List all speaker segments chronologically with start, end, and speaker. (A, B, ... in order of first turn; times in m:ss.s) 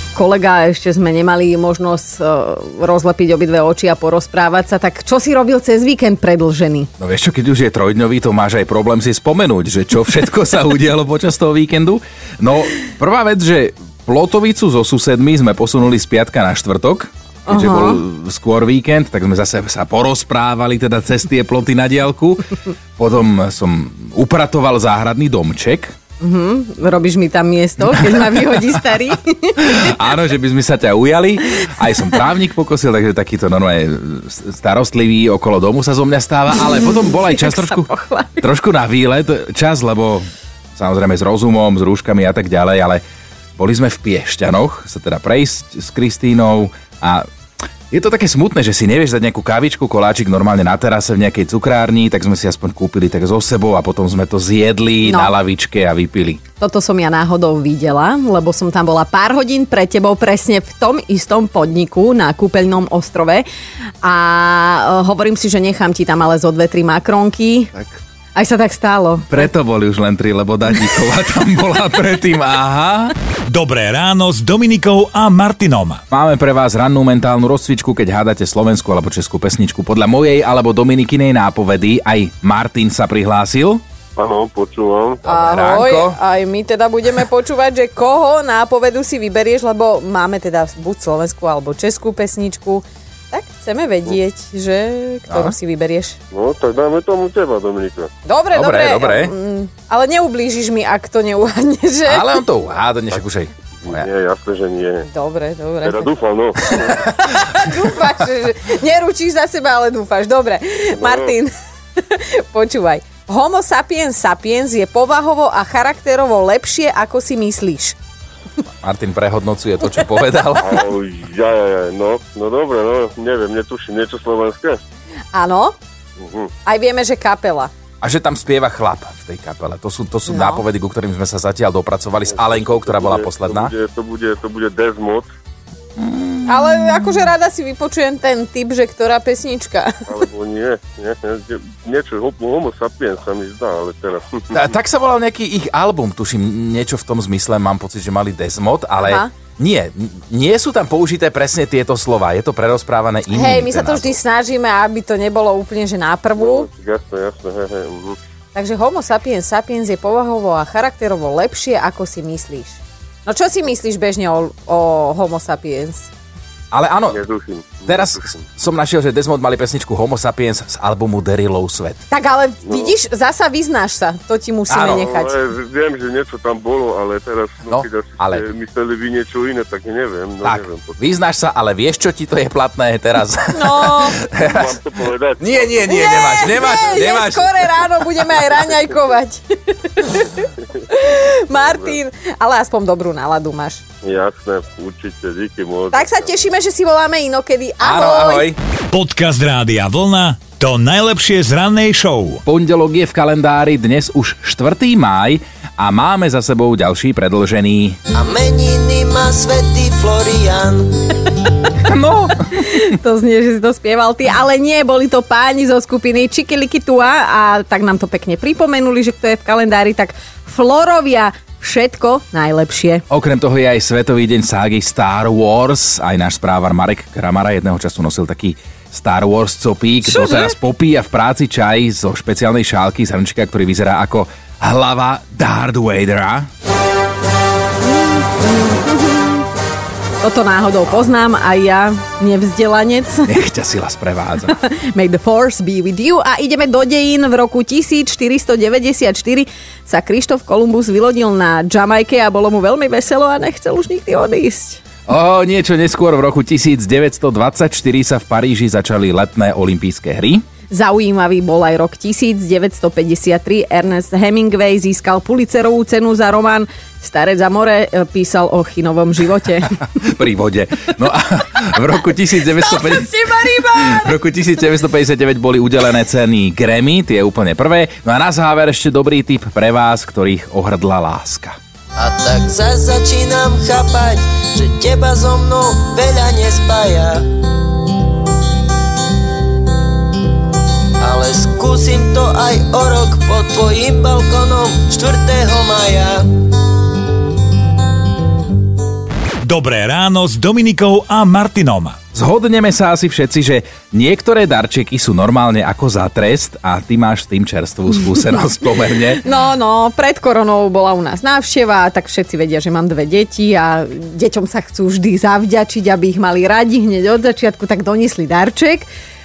0:00.1-0:06.9 A
0:07.0-0:25.9 B
0:17.5-0:18.0 A
0:26.2-0:29.9 A
0:27.9-0:28.4 B
0:29.6-0:37.9 B
0:36.9-0:38.4 A
0:38.4-0:43.0 B
0:43.6-0:47.2 B
0:47.9-0:56.4 B
0:55.0-0:55.3 A
0:56.6-1:03.4 A
1:04.0-1:07.7 A
1:08.3-1:09.5 A
1:09.3-1:13.1 B
1:13.5-1:16.0 C
1:16.1-1:23.8 B
1:24.2-1:25.2 D
1:25.2-1:26.2 B
1:25.2-1:36.2 A
1:35.3-1:35.5 B
1:36.3-1:38.1 D
1:38.2-1:42.4 A
1:38.5-1:39.3 B
1:42.0-1:44.1 B
1:43.8-1:45.0 D
1:45.1-1:46.1 A
1:45.8-1:47.0 D
1:47.0-1:58.0 A
1:51.0-1:51.3 D
1:58.8-2:00.8 B
2:00.6-2:04.8 D
2:05.3-2:05.8 A
2:06.2-2:06.5 D
2:06.6-2:07.7 A
2:08.0-2:13.7 B
2:10.3-2:10.6 A
2:12.3-2:15.3 D
2:16.0-2:17.1 B
2:16.4-2:20.0 A
2:20.1-2:24.6 D
2:24.5-2:34.2 B
2:29.0-2:29.3 A
2:33.3-2:36.7 A
2:36.4-2:38.2 D
2:38.5-2:46.1 A
2:46.7-2:47.2 B
2:47.1-2:48.4 D
2:47.8-2:52.0 B
2:52.1-2:55.3 A
2:52.6-2:52.9 D
2:54.7-2:55.1 B
2:55.0-3:01.0 D
2:57.7-2:58.4 B
3:00.4-3:04.8 B
3:03.5-3:04.2 A
3:04.3-3:06.6 D
3:05.4-3:07.9 B
3:05.8-3:13.8 A
3:11.5-3:12.0 D
3:14.0-3:16.3 D
3:15.9-3:18.5 A
3:17.8-3:18.6 B
3:18.9-3:22.4 C
3:22.4-3:28.0 B
3:28.1-3:30.9 E
3:31.8-3:32.3 B
3:32.5-3:43.0 A
3:43.1-3:56.5 B
3:50.1-3:50.5 A
3:57.9-3:59.4 A
4:00.2-4:03.3 A
4:03.2-4:04.6 B
4:04.4-4:14.8 A
4:15.1-4:20.4 B
4:20.7-4:29.7 A
4:30.0-4:41.6 B
4:32.6-4:34.1 A
4:42.0-4:47.2 E
4:51.0-4:56.2 E
4:59.4-5:02.0 C
5:02.1-5:09.2 B
5:09.2-5:18.9 A